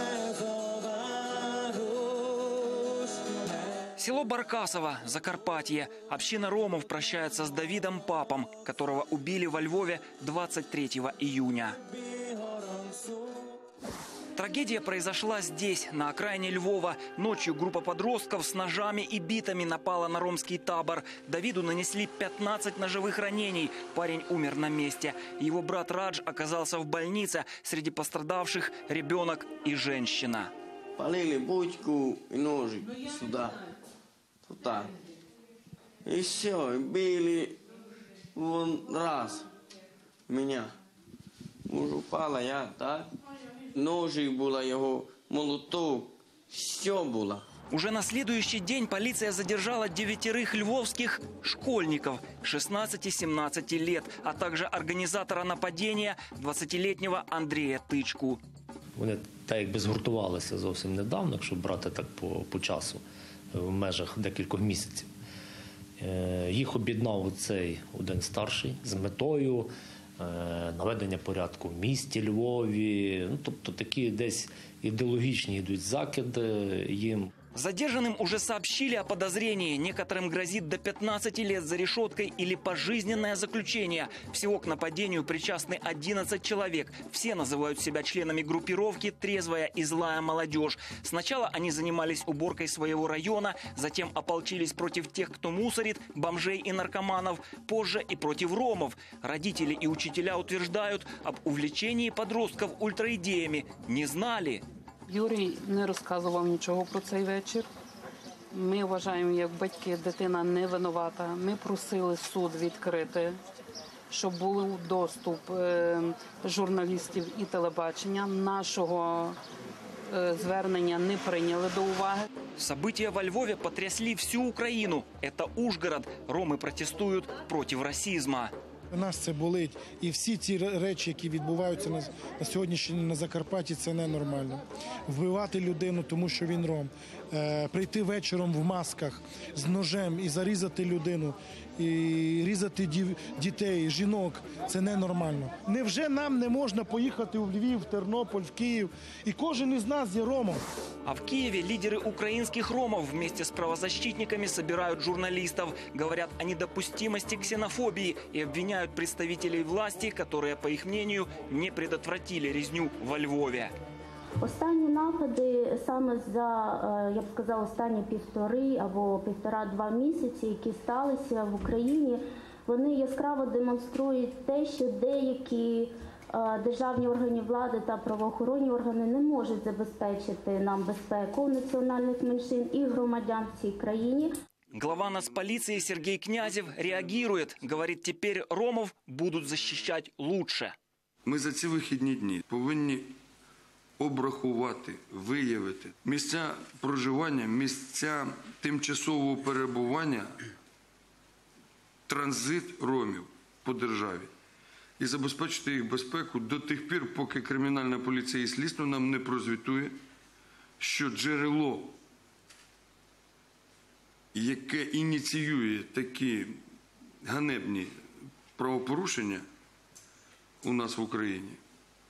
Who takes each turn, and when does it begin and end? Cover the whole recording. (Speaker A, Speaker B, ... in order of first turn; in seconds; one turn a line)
Speaker A: 4.0-11.8
Speaker A: 14.3-30.5
Speaker B: 30.9-33.6
Speaker B: 34.5-34.9
Speaker B: 36.0-37.6
Speaker B: 38.3-39.5
Speaker B: 40.3-40.7
Speaker B: 41.7-43.1
Speaker B: 43.7-47.4
Speaker A: 47.7-58.4
Speaker C: 59.0-65.1
Speaker C: 66.0-77.3
Speaker A: 77.5-104.6
Speaker D: 105.1-107.7
Speaker D: 108.5-113.4
Speaker D: 114.1-119.4
Speaker D: 120.1-122.3
Speaker A: 122.6-128.5
Speaker E: 128.9-150.6
Speaker A: 151.0-163.7
Speaker F: 164.4-184.3
Speaker A: 184.7-190.7
Speaker G: 191.2-193.1
Speaker G: 194.0-200.3
Speaker G: 202.1-204.3
Speaker G: 205.0-209.9
Speaker G: 210.8-211.9
Speaker G: 214.3-216.5
Speaker G: 217.2-217.9
Speaker G: 218.6-219.4
Speaker G: 220.6-221.6